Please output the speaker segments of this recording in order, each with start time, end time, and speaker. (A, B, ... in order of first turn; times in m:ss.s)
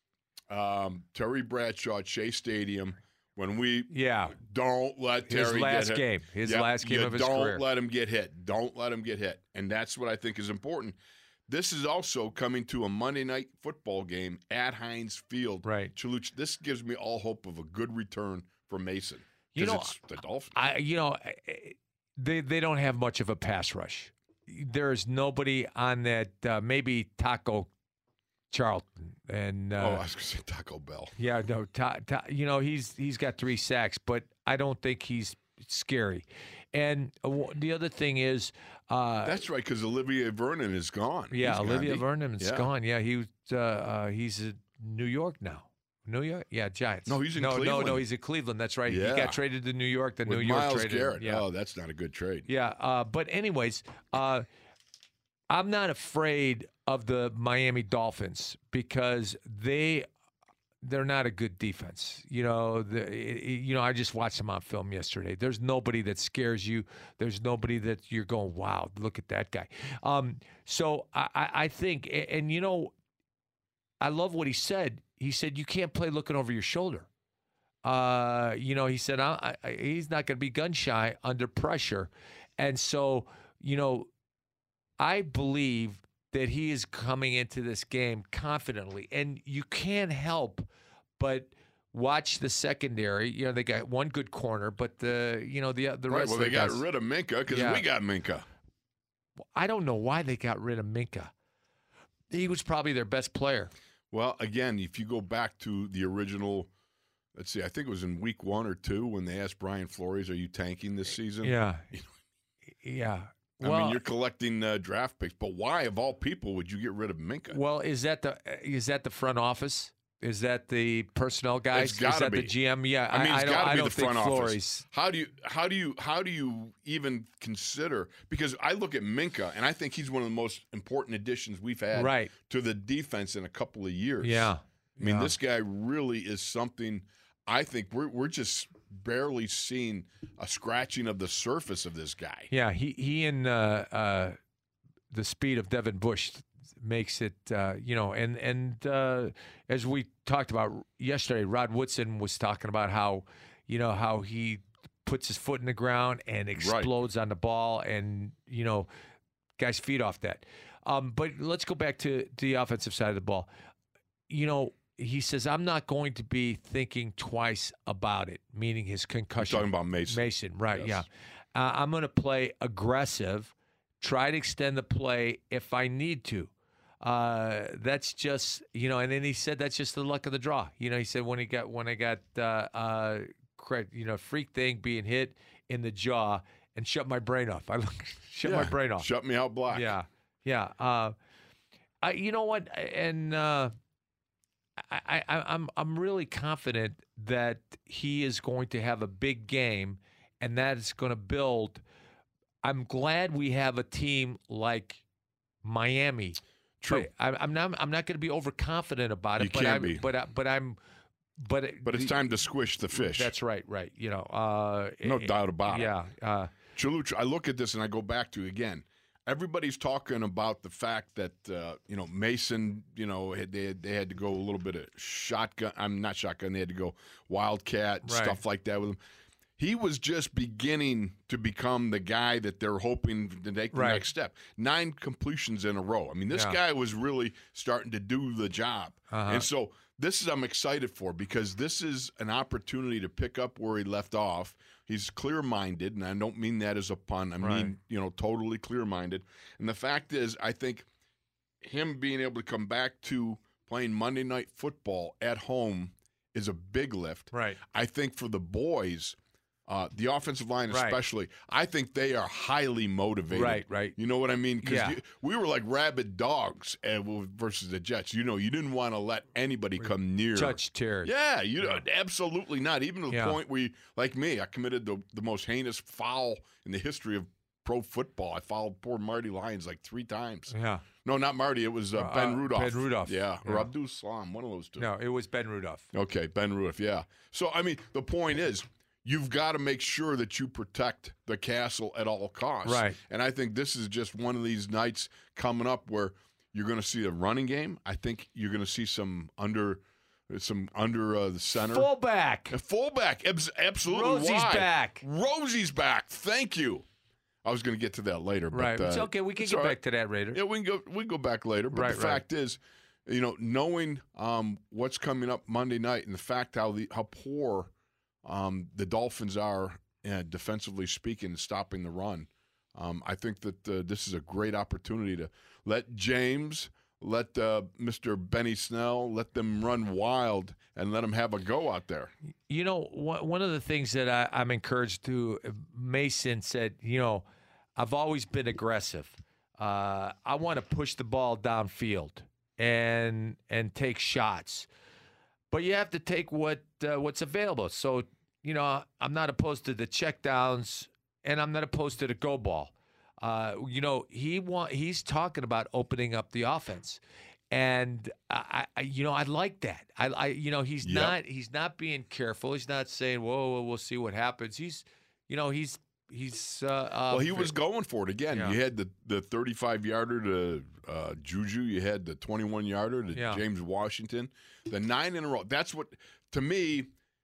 0:00.5-0:11.0 A
0:03.9-0:04.4 B
0:05.3-0:07.6 B
0:11.5-0:20.6 A
0:15.6-0:15.9 B
0:19.6-0:20.0 B
0:20.5-0:27.7 B
0:28.5-0:30.0 B
0:29.8-0:31.2 A
0:31.2-0:39.4 B
0:39.2-0:42.7 A
0:41.3-0:51.4 B
0:47.1-0:48.0 A
0:48.9-0:49.4 A
0:50.2-0:52.5 A
0:52.5-0:54.5 B
0:55.5-1:00.1 B
1:00.8-1:12.9 B
1:14.0-1:17.1 B
1:17.8-1:24.1 B
1:25.0-1:30.7 B
1:31.2-1:36.8 B
1:36.1-1:38.5 A
1:37.5-1:37.8 B
1:39.6-1:41.3 B
1:42.3-1:43.7 B
1:44.1-1:46.7 A
1:47.4-1:52.1 A
1:51.4-1:51.9 B
1:52.8-1:54.0 B
1:53.6-1:57.6 A
1:57.5-2:04.8 B
2:01.7-2:02.6 A
2:03.1-2:22.5 A
2:11.9-2:12.3 B
2:14.2-2:15.3 B
2:22.5-2:24.4 B
2:25.1-2:38.9 B
2:36.6-2:36.9 A
2:39.6-2:43.5 B
2:44.3-3:09.1 B
2:49.4-2:51.1 A
3:08.4-3:09.9 A
3:09.7-3:11.2 B
3:12.0-3:13.7 B
3:14.9-3:21.8 B
3:22.6-3:25.0 B
3:25.6-3:30.8 B
3:26.8-3:27.1 A
3:29.4-3:30.0 A
3:31.4-3:32.2 B
3:31.8-3:33.3 A
3:33.0-3:36.5 B
3:35.0-3:35.9 A
3:36.7-3:49.0 A
3:48.0-3:48.4 B
3:49.6-4:10.9 A
3:53.7-3:54.0 B
3:56.3-3:56.6 B
3:59.1-3:59.5 B
4:07.4-4:07.7 B
4:11.6-4:19.2 A
4:17.3-4:17.6 B
4:19.7-4:44.9 A
4:20.7-4:21.0 B
4:23.3-4:24.0 B
4:24.6-4:25.0 B
4:30.3-4:31.1 B
4:33.1-4:33.4 B
4:40.5-4:40.8 B
4:42.0-4:43.7 B
4:44.8-4:45.9 B
4:45.9-5:01.9 A
4:52.6-4:53.0 B
5:01.7-5:02.6 B
5:02.5-5:06.9 A
5:03.8-5:05.0 B
5:07.4-5:09.8 A
5:08.5-5:10.4 B
5:10.3-5:17.7 A
5:11.7-5:12.2 B
5:18.2-5:32.1 A
5:32.5-5:37.2 B
5:37.8-5:44.7 B
5:45.5-6:07.5 B
6:00.8-6:01.2 A
6:07.1-6:16.9 A
6:08.3-6:08.6 B
6:13.1-6:13.4 B